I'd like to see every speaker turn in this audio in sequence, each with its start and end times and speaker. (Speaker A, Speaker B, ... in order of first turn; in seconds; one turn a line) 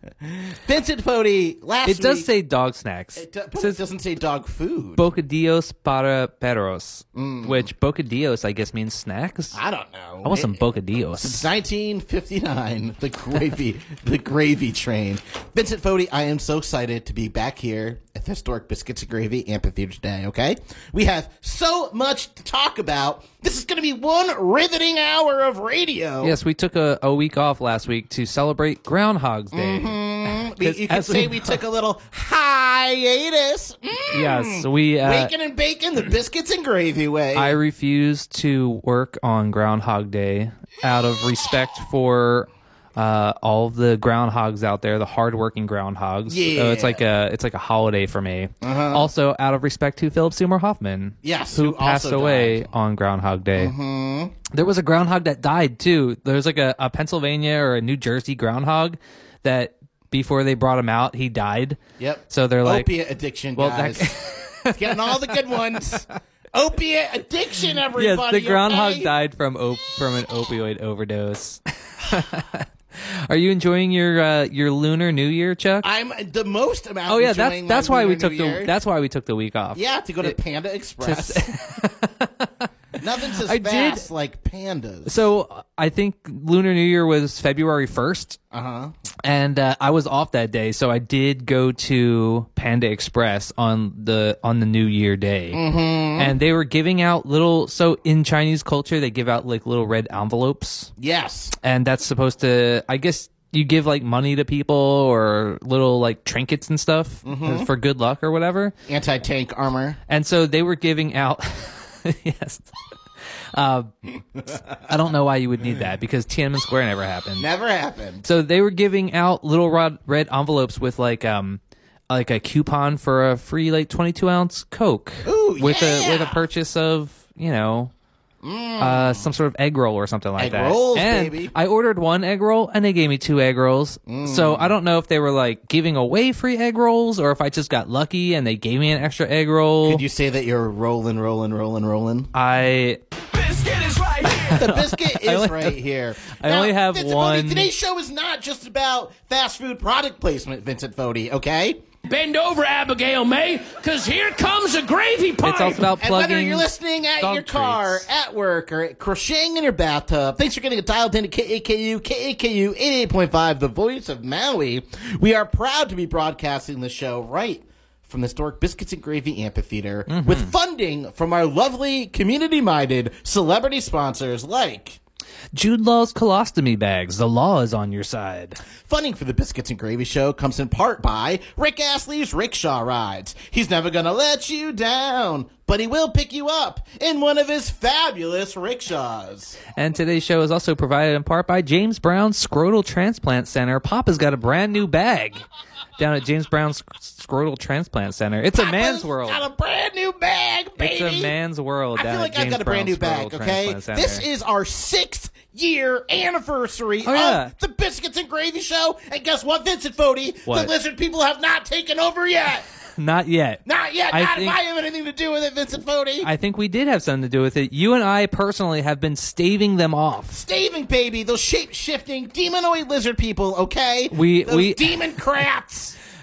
Speaker A: 0.2-2.3
Speaker B: 1.8-3.8
Speaker A: 3.1-5.0
Speaker B: 5.0-9.6
Speaker A: 7.1-7.7
Speaker A: 9.5-26.3
Speaker B: 10.2-11.4
Speaker B: 26.2-31.6
Speaker A: 29.5-37.6
Speaker B: 34.1-35.3
Speaker B: 37.3-53.7
Speaker A: 46.3-47.0
Speaker A: 48.6-49.1
Speaker A: 51.2-52.7
Speaker A: 53.5-54.3
Speaker B: 54.5-62.9
Speaker A: 62.0-69.1
Speaker B: 63.5-66.0
Speaker B: 67.9-75.9
Speaker A: 75.8-78.7
Speaker B: 77.1-80.4
Speaker A: 79.7-81.5
Speaker B: 81.0-82.5
Speaker A: 83.0-85.3
Speaker B: 83.4-84.0
Speaker B: 85.0-88.4
Speaker A: 88.5-88.9
Speaker B: 89.2-95.6
Speaker A: 95.5-96.3
Speaker B: 96.2-100.9
Speaker A: 101.0-101.5
Speaker B: 101.6-108.7
Speaker A: 107.2-107.7
Speaker A: 108.9-110.0
Speaker B: 110.1-112.7
Speaker B: 113.5-113.9
Speaker B: 114.8-117.5
Speaker A: 117.4-118.2
Speaker B: 118.2-127.9
Speaker A: 125.2-126.5
Speaker A: 128.4-129.3
Speaker B: 128.8-140.0
Speaker A: 130.3-131.5
Speaker A: 134.1-134.7
Speaker A: 139.8-142.3
Speaker B: 142.3-143.0
Speaker C: 143.4-144.4
Speaker A: 144.4-151.8
Speaker B: 144.5-145.8
Speaker B: 146.3-147.7
Speaker C: 152.1-155.9
Speaker B: 155.4-158.1
Speaker A: 155.8-175.0
Speaker B: 170.1-170.5
Speaker B: 175.5-178.6
Speaker A: 178.8-189.6
Speaker B: 189.8-195.4
Speaker B: 196.0-199.4
Speaker A: 198.5-201.3
Speaker B: 200.8-204.2
Speaker A: 201.9-212.7
Speaker B: 207.0-207.5
Speaker B: 210.5-210.7
Speaker B: 213.0-214.6
Speaker A: 213.7-216.3
Speaker B: 216.2-220.4
Speaker A: 220.3-226.0
Speaker B: 224.1-224.9